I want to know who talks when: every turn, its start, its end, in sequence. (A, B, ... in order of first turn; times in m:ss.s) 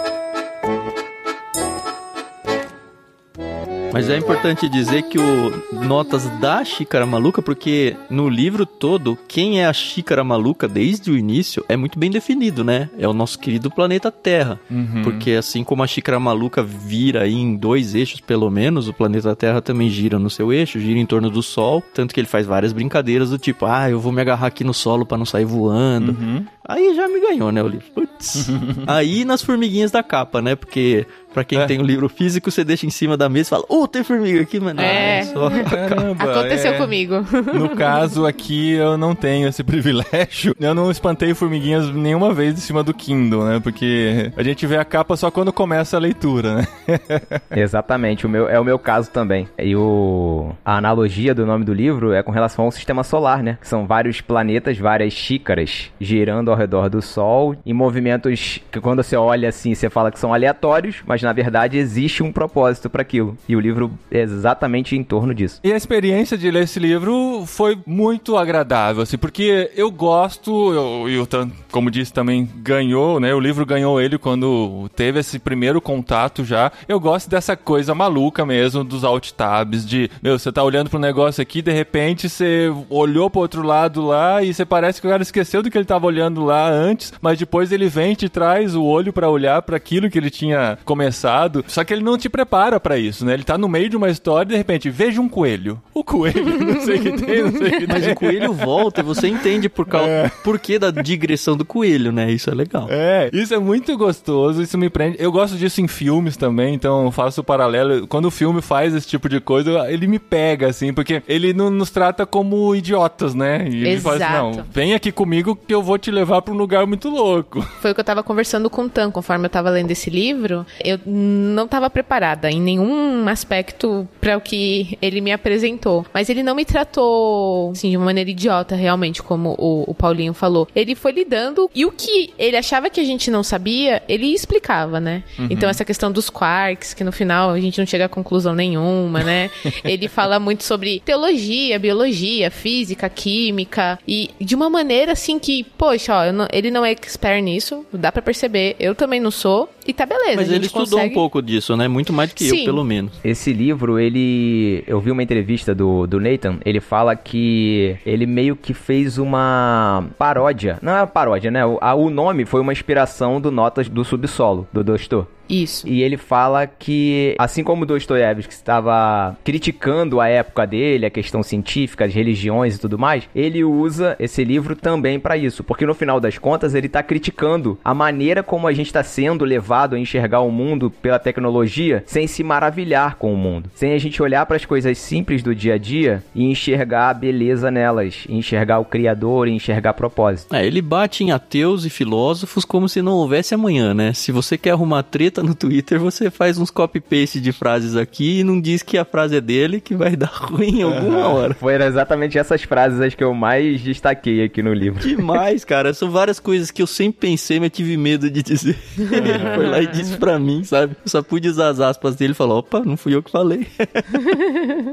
0:03.9-0:36.1 A
0:14.7-0:15.3 B
0:26.0-0:26.5 B
0:28.4-0:28.9 B
0:34.8-0:38.0 C
0:34.8-0:47.4 B
0:47.5-1:05.6 D
1:05.6-1:39.3 B
1:37.9-1:42.9 A
1:39.9-1:40.4 B
1:42.9-1:57.7 B
1:53.8-1:54.7 C
1:57.8-2:31.2 C
2:15.4-2:15.8 B
2:30.3-2:33.1 A
2:32.4-2:32.8 C
2:33.2-2:45.3 D
2:45.5-2:45.9 C
2:45.8-3:10.5 D
3:10.5-3:21.6 A
3:20.8-3:21.4 B
3:21.6-3:25.4 D
3:25.0-3:34.3 A
3:29.1-3:29.7 B